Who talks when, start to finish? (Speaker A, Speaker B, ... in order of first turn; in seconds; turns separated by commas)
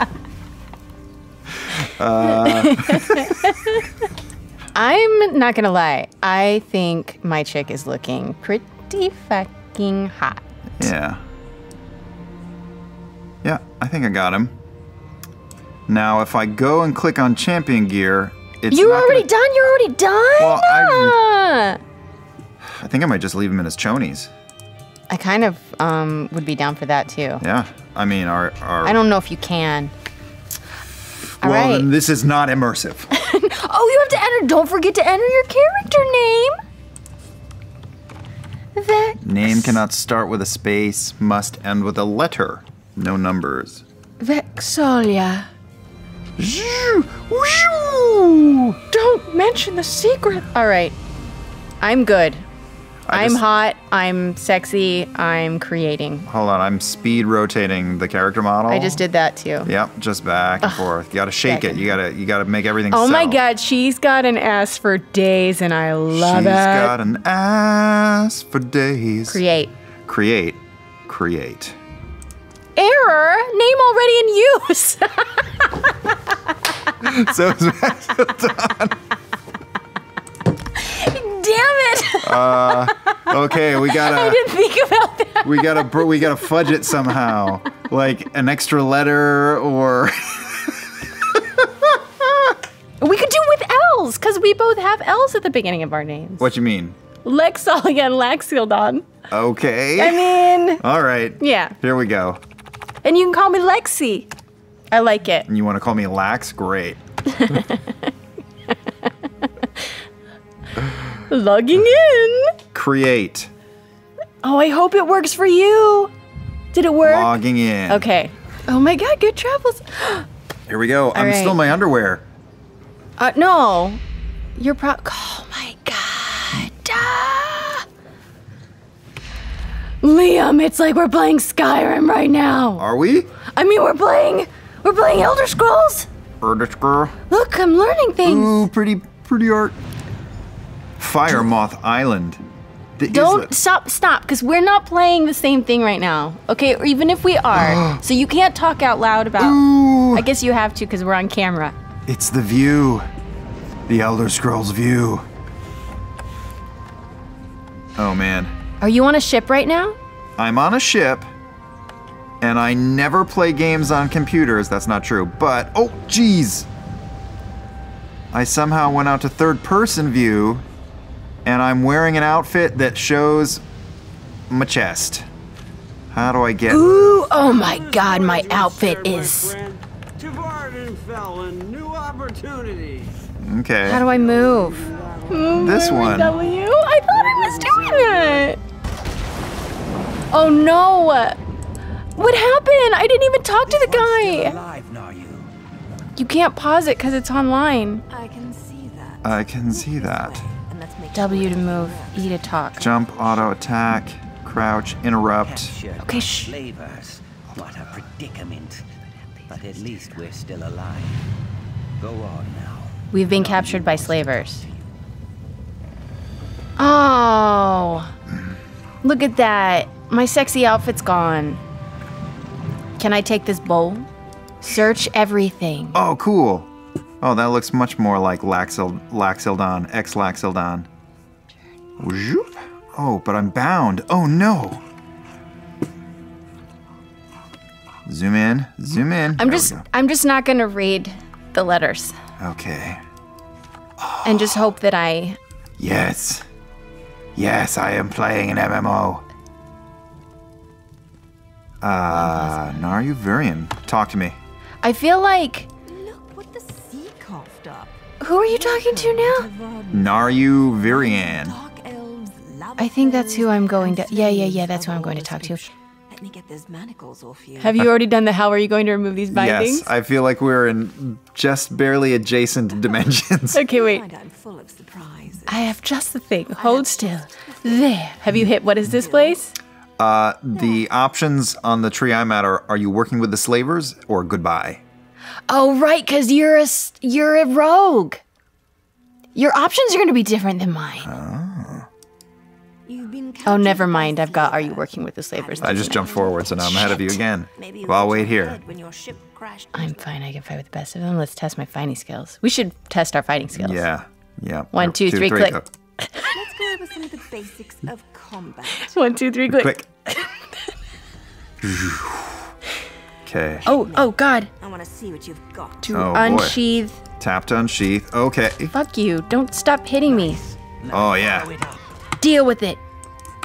Speaker A: 1.7-3.5, Speaker B: 2.3-3.9, Speaker B: 4.7-10.4, Speaker A: 10.8-11.2, Speaker A: 13.4-14.6, Speaker A: 15.9-19.3, Speaker B: 18.7-21.8, Speaker A: 20.4-21.2, Speaker A: 22.6-24.3, Speaker B: 25.1-27.4, Speaker A: 27.4-29.0, Speaker B: 28.8-29.9, Speaker A: 31.4-33.1, Speaker B: 31.4-31.9, Speaker B: 33.1-36.6, Speaker B: 38.7-39.8, Speaker A: 39.2-43.8, Speaker B: 44.2-45.5, Speaker A: 46.4-48.8, Speaker B: 48.9-50.9, Speaker B: 51.8-52.4, Speaker A: 53.0-53.4, Speaker B: 53.1-56.3, Speaker A: 56.3-59.0, Speaker B: 58.7-59.7, Speaker A: 59.6-63.4, Speaker B: 60.6-60.9, Speaker B: 61.4-61.9, Speaker B: 62.9-67.0, Speaker A: 66.1-69.4, Speaker B: 69.3-69.7, Speaker A: 70.0-71.8, Speaker B: 72.8-76.2, Speaker A: 77.0-79.0, Speaker B: 80.7-86.2, Speaker A: 82.2-84.4, Speaker A: 85.4-92.5, Speaker B: 93.0-96.5, Speaker A: 96.4-97.0, Speaker B: 97.2-99.1, Speaker A: 99.3-102.4, Speaker B: 100.0-100.8, Speaker B: 101.4-101.8, Speaker B: 103.0-104.3, Speaker B: 104.9-105.5, Speaker A: 105.5-107.0, Speaker B: 107.3-108.1, Speaker B: 108.7-110.0, Speaker B: 111.3-112.6, Speaker A: 112.7-113.5, Speaker B: 114.4-116.1, Speaker B: 116.7-120.3, Speaker A: 117.0-118.1, Speaker A: 120.7-122.2, Speaker B: 121.1-121.6, Speaker B: 123.2-124.0, Speaker B: 124.6-127.8, Speaker B: 130.0-132.8, Speaker A: 132.8-133.3, Speaker B: 133.4-136.1, Speaker A: 136.4-137.1, Speaker B: 137.3-138.7, Speaker A: 138.2-139.8, Speaker A: 141.0-142.4, Speaker A: 143.0-143.5, Speaker B: 143.1-151.8, Speaker A: 147.5-148.0, Speaker A: 149.4-150.3, Speaker A: 152.1-153.1, Speaker A: 153.9-155.3, Speaker A: 157.9-158.5, Speaker B: 158.8-160.0, Speaker A: 160.4-161.3, Speaker A: 162.4-166.7, Speaker A: 168.3-170.6, Speaker A: 171.4-173.6, Speaker A: 174.5-175.3, Speaker A: 176.1-177.1, Speaker B: 176.7-179.7, Speaker A: 183.4-184.0, Speaker B: 183.8-188.6, Speaker A: 185.5-186.4, Speaker B: 190.3-191.4, Speaker B: 192.2-194.6, Speaker C: 193.7-195.5, Speaker B: 196.2-198.0, Speaker D: 198.1-202.3, Speaker A: 199.2-200.5, Speaker B: 201.1-202.9, Speaker A: 202.8-205.7, Speaker C: 205.4-208.9, Speaker B: 206.0-206.5, Speaker A: 207.5-207.9, Speaker C: 209.5-211.2, Speaker C: 212.0-214.9, Speaker B: 213.1-214.6, Speaker B: 216.8-218.1, Speaker A: 218.3-218.6, Speaker B: 219.0-221.6, Speaker B: 223.0-224.1, Speaker B: 224.6-226.0, Speaker A: 225.9-226.7, Speaker A: 227.2-230.9, Speaker A: 232.0-234.8, Speaker A: 238.1-239.8, Speaker B: 239.4-242.2, Speaker A: 242.4-243.0, Speaker A: 244.0-244.7, Speaker B: 244.2-245.4, Speaker A: 245.8-246.5, Speaker A: 247.3-249.2, Speaker A: 251.8-254.4, Speaker B: 252.1-252.8, Speaker B: 254.8-255.7, Speaker D: 255.9-267.8, Speaker B: 258.2-259.5, Speaker A: 259.9-261.6, Speaker B: 262.8-265.6, Speaker B: 267.6-269.9, Speaker A: 269.3-273.6, Speaker B: 273.5-274.0, Speaker D: 273.7-275.8, Speaker B: 275.5-279.5, Speaker D: 276.5-278.0, Speaker D: 278.8-279.4, Speaker A: 280.0-284.8, Speaker B: 285.5-288.2, Speaker B: 289.3-291.1, Speaker A: 291.0-291.9, Speaker D: 292.9-296.4, Speaker B: 293.4-297.2, Speaker A: 295.6-298.6, Speaker D: 297.5-300.1, Speaker B: 299.7-303.8, Speaker A: 303.6-305.6, Speaker B: 304.7-306.3, Speaker D: 306.3-309.1, Speaker B: 308.8-310.7, Speaker A: 309.5-309.8, Speaker A: 311.6-312.5, Speaker A: 313.2-313.7, Speaker D: 313.6-315.9, Speaker B: 313.6-314.5, Speaker B: 315.8-317.0, Speaker A: 315.9-316.6, Speaker A: 317.2-318.7, Speaker B: 318.7-320.4, Speaker C: 320.1-321.9, Speaker A: 320.9-321.5, Speaker B: 322.2-322.8